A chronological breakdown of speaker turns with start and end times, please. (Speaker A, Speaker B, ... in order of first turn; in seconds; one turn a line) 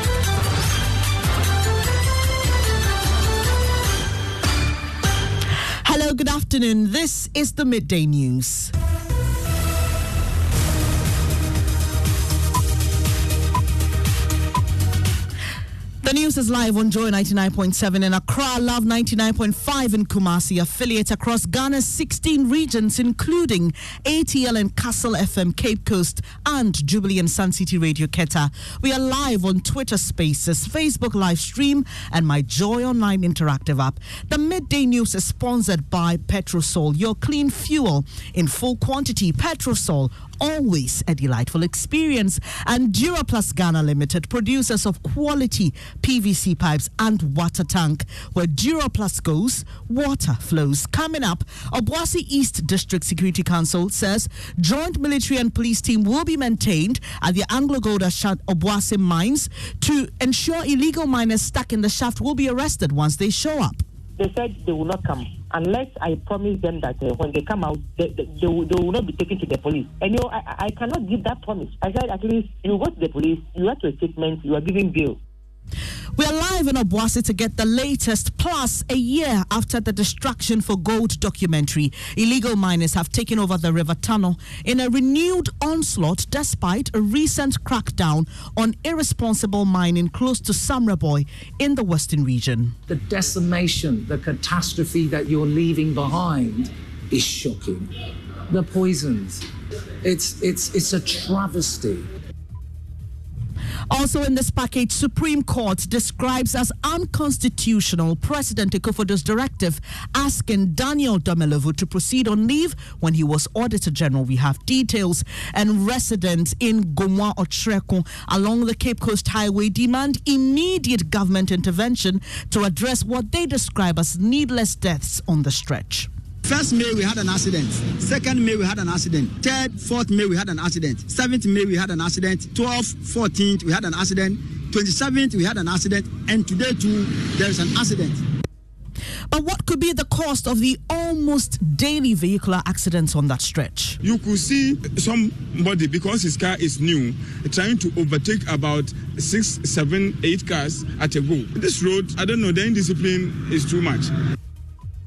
Speaker A: 5.8-8.7
Speaker A: 16.0-63.8
Speaker B: 64.2-75.2
Speaker A: 76.2-92.8
Speaker C: 92.9-97.9
Speaker C: 98.5-99.5
Speaker C: 100.0-102.1
Speaker A: 103.9-126.1
Speaker D: 126.4-138.2
Speaker A: 139.3-144.0
Speaker E: 144.0-154.1